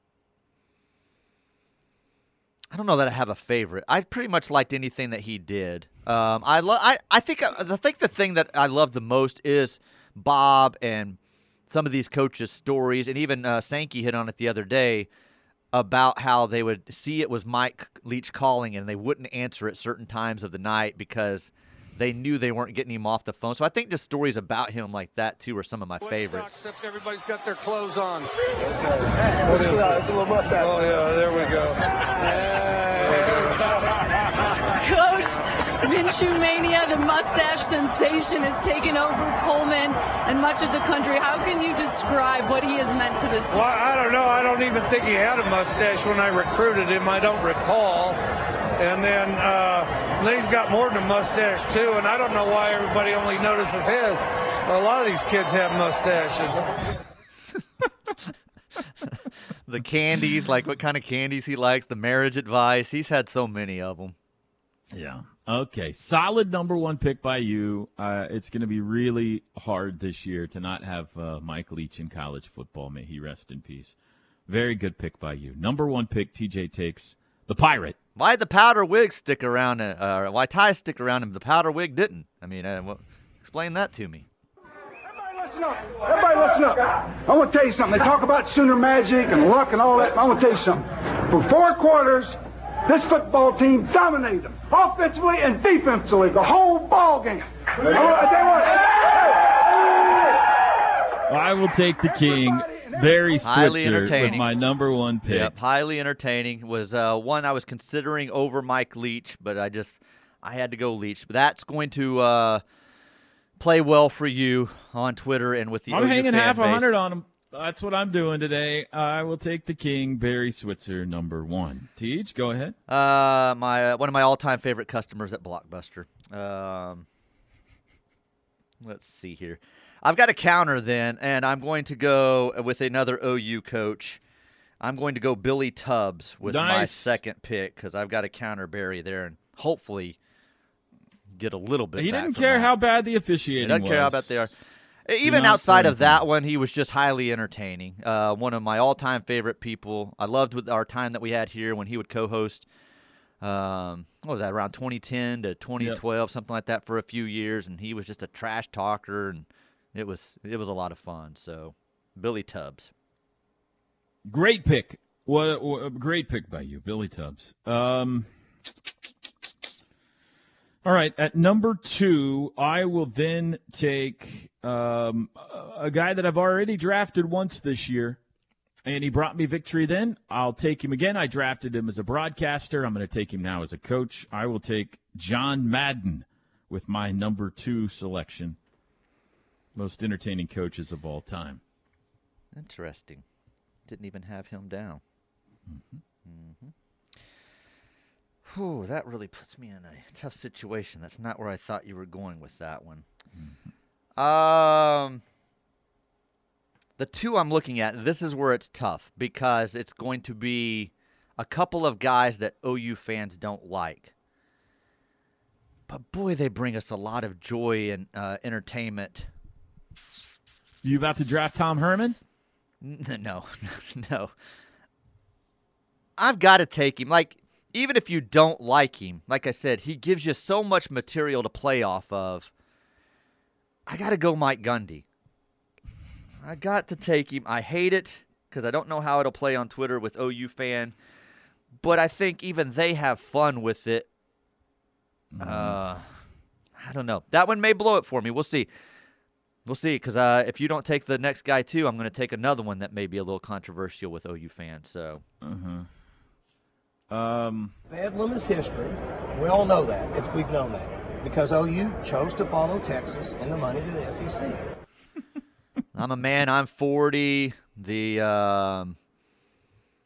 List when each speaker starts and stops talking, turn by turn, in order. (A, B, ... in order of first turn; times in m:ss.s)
0:02.7-0:15.1 A
0:15.7-0:26.6 A
0:26.0-0:33.7 B
0:29.4-0:30.9 C
0:34.7-0:43.6 D
0:43.5-0:48.2 B
0:48.8-0:56.6 B
0:59.7-1:04.2 A
1:04.9-1:14.0 E
1:14.5-1:18.0 E
1:18.2-1:24.2 A
1:25.1-1:39.0 F
1:41.3-1:45.5 E
1:43.4-1:44.5 A
1:45.2-1:52.6 A
1:53.6-1:56.9 A
1:55.9-2:02.7 E
2:02.9-2:07.0 A
2:08.8-2:14.2 A
2:14.8-2:20.2 A
2:16.4-2:17.2 E
2:21.4-2:22.7 A
2:22.0-2:24.5 E
2:23.6-2:24.5 A
2:25.1-2:32.7 A
2:25.2-2:26.3 E
2:33.4-2:42.9 A
2:44.2-2:48.3 E
2:50.8-2:58.2 E
2:58.8-3:08.6 E
3:09.7-3:11.6 E
3:12.5-3:13.2 A
3:13.9-3:15.0 A
3:15.7-3:16.0 E
3:16.2-3:16.7 A
3:18.4-3:23.0 A
3:24.2-3:25.2 A
3:27.0-3:34.1 A
3:35.9-3:39.3 A
3:40.8-3:42.2 E
3:42.8-3:44.3 A
3:46.2-3:52.5 A
3:53.9-3:55.0 A
3:56.4-4:00.9 A
4:01.8-4:04.1 A
4:05.3-4:05.8 E
4:05.4-4:06.1 A
4:06.8-4:08.7 A
4:09.6-4:15.2 A
4:15.4-4:15.9 E
4:17.1-4:17.7 E
4:17.9-4:24.6 C
4:25.9-4:29.0 A